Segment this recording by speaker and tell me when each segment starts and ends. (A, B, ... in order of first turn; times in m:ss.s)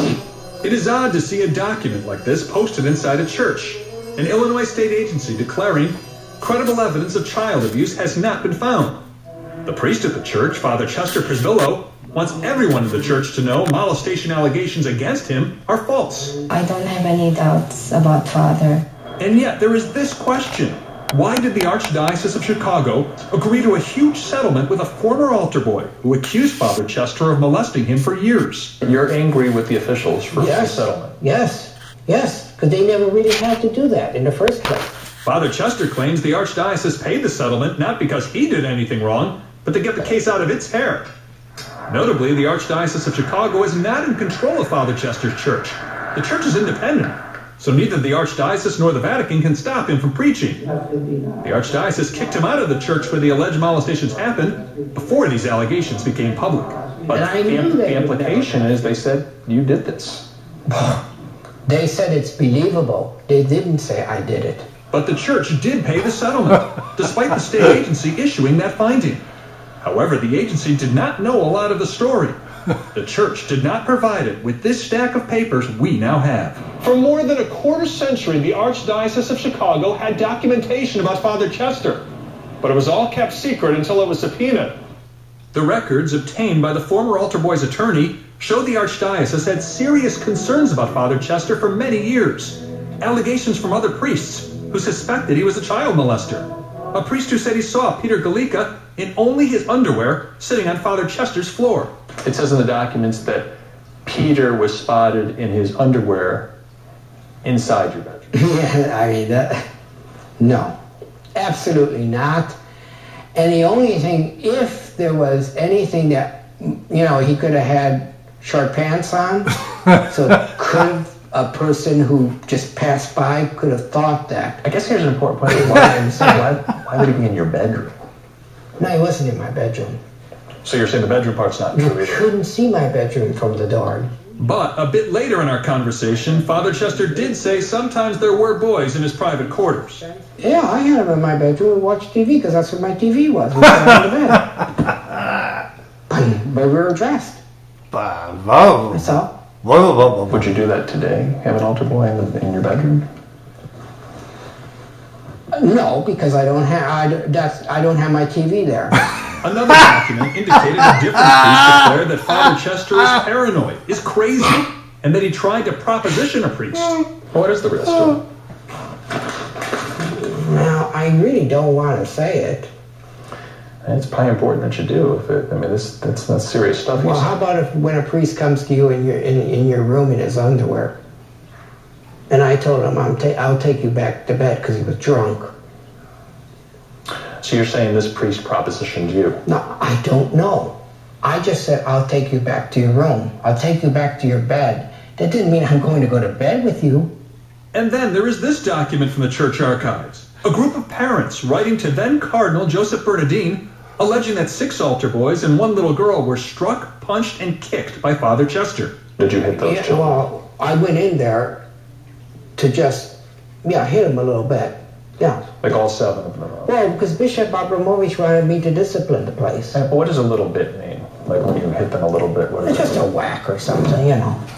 0:00.6-0:09.0 A
0:09.6-0:16.4 A
0:16.5-0:18.8 B
0:19.2-0:28.7 A
0:28.8-0:31.2 C
0:30.4-0:34.9 D
0:35.2-0:41.1 A
0:41.9-0:50.6 A
0:51.4-0:58.8 A
0:57.1-0:58.7 D
0:57.9-1:00.2 C
1:00.7-1:01.0 D
1:01.7-1:04.7 D
1:04.9-1:09.2 A
1:09.8-1:12.4 A
1:12.9-1:22.0 A
1:22.6-1:24.7 A
1:25.5-1:41.9 A
1:42.2-1:43.5 C
1:44.0-1:46.5 C
1:47.4-1:48.3 C
1:48.3-1:49.6 D
1:50.4-1:50.8 D
1:51.4-1:52.6 D
1:53.4-1:59.5 D
2:00.1-2:04.6 D
2:04.6-2:07.9 C
2:05.6-2:06.4 D
2:08.8-2:10.0 D
2:10.6-2:12.2 C
2:11.7-2:14.1 D
2:14.4-2:20.0 A
2:20.4-2:24.5 D
2:26.1-2:27.4 D
2:28.9-2:29.3 D
2:30.3-2:33.1 C
2:35.5-2:39.0 D
2:39.4-2:47.0 A
2:47.3-2:48.2 C
2:50.2-2:52.7 D
2:53.8-2:57.3 C
2:57.0-3:00.9 D
3:02.3-3:05.5 D
3:07.4-3:09.4 C
3:09.5-3:17.1 D
3:17.7-3:29.0 A
3:29.2-3:30.2 C
3:29.6-3:31.6 D
3:32.6-3:35.4 D
3:35.6-3:36.7 C
3:36.7-3:39.8 D
3:39.7-3:43.0 C
3:42.6-3:44.4 D